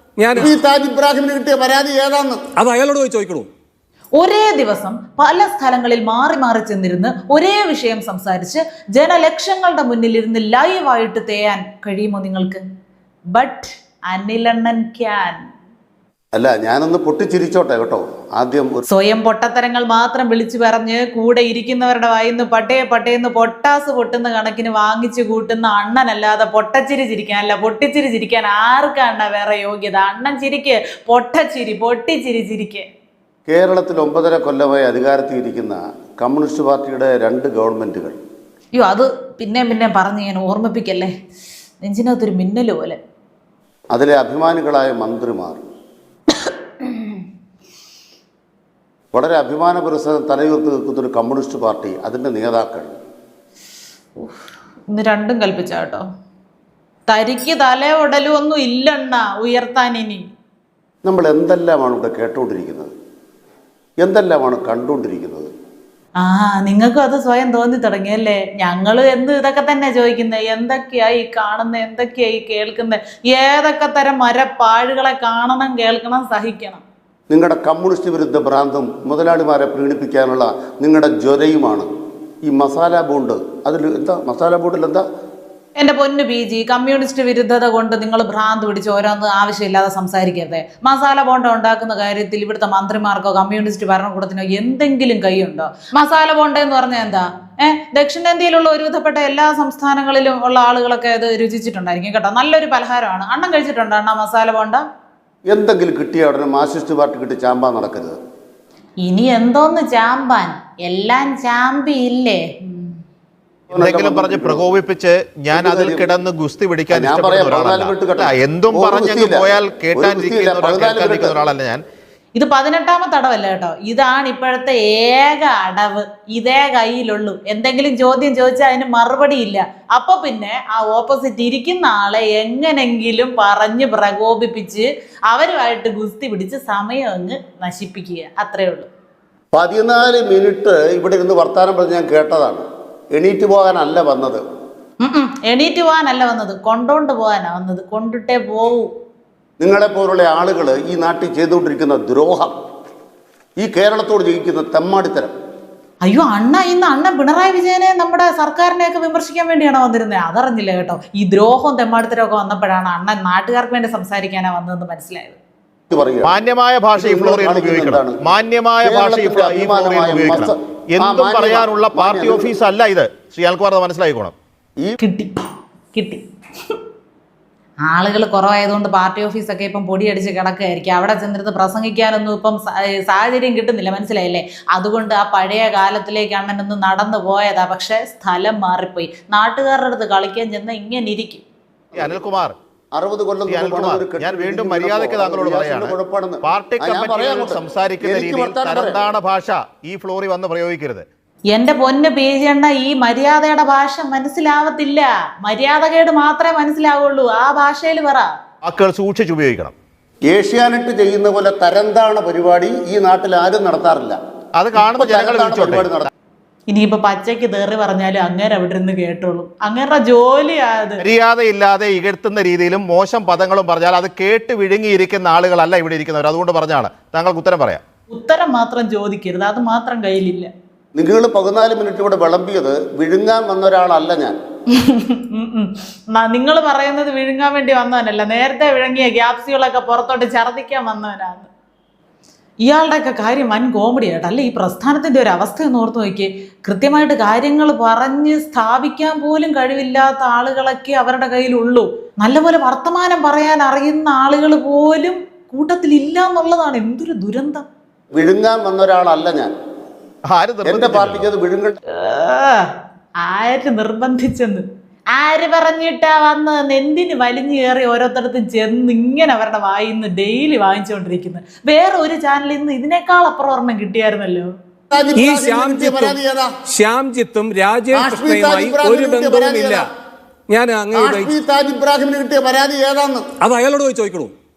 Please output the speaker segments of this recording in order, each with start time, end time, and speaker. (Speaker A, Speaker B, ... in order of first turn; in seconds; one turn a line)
Speaker A: 0.2-0.5
Speaker B: 0.3-2.4
Speaker A: 2.6-3.5
Speaker C: 4.2-12.6
Speaker C: 13.3-15.4
Speaker B: 16.3-18.8
Speaker C: 18.9-32.9
Speaker B: 33.5-38.2
Speaker C: 38.7-41.1
Speaker C: 41.8-43.0
Speaker B: 43.9-45.6
Speaker C: 46.8-47.2
Speaker B: 49.1-52.9
Speaker C: 54.9-56.0
Speaker C: 57.1-60.2
Speaker B: 61.0-62.9
Speaker B: 64.0-65.5
Speaker C: 66.2-76.8
Speaker B: 77.3-81.9
Speaker B: 82.4-85.0
Speaker C: 85.8-104.8
Speaker B: 105.5-108.2
Speaker C: 109.0-113.0
Speaker B: 113.7-114.7
Speaker D: 113.8-121.8
Speaker B: 115.5-116.1
Speaker B: 116.9-121.4
Speaker C: 122.3-138.9
Speaker B: 139.5-144.4
Speaker C: 145.0-148.9
Speaker B: 149.6-152.5
Speaker B: 153.6-155.3
Speaker C: 156.0-165.4
Speaker B: 165.9-166.3
Speaker D: 166.2-174.3
Speaker B: 166.9-168.2
Speaker B: 168.8-172.5
Speaker C: 175.0-176.2
Speaker C: 177.8-191.4
Speaker D: 191.9-192.5
Speaker B: 192.9-199.0
Speaker D: 193.5-201.1
Speaker C: 201.5-208.3
Speaker D: 208.6-209.7
Speaker B: 210.3-214.2
Speaker D: 214.6-215.9
Speaker B: 214.7-216.1
Speaker C: 216.7-221.0
Speaker D: 221.0-227.8
Speaker C: 228.1-230.5
Speaker B: 230.9-234.3
Speaker C: 234.7-241.5
Speaker C: 242.6-257.6
Speaker B: 258.1-259.5
Speaker D: 260.3-261.3
Speaker B: 260.6-261.8
Speaker C: 261.9-274.5
Speaker B: 274.9-276.5
Speaker A: 275.1-276.2
Speaker A: 276.7-279.9
Speaker B: 277.9-279.9
Speaker A: 280.5-281.3
Speaker B: 280.9-283.3
Speaker A: 283.4-284.3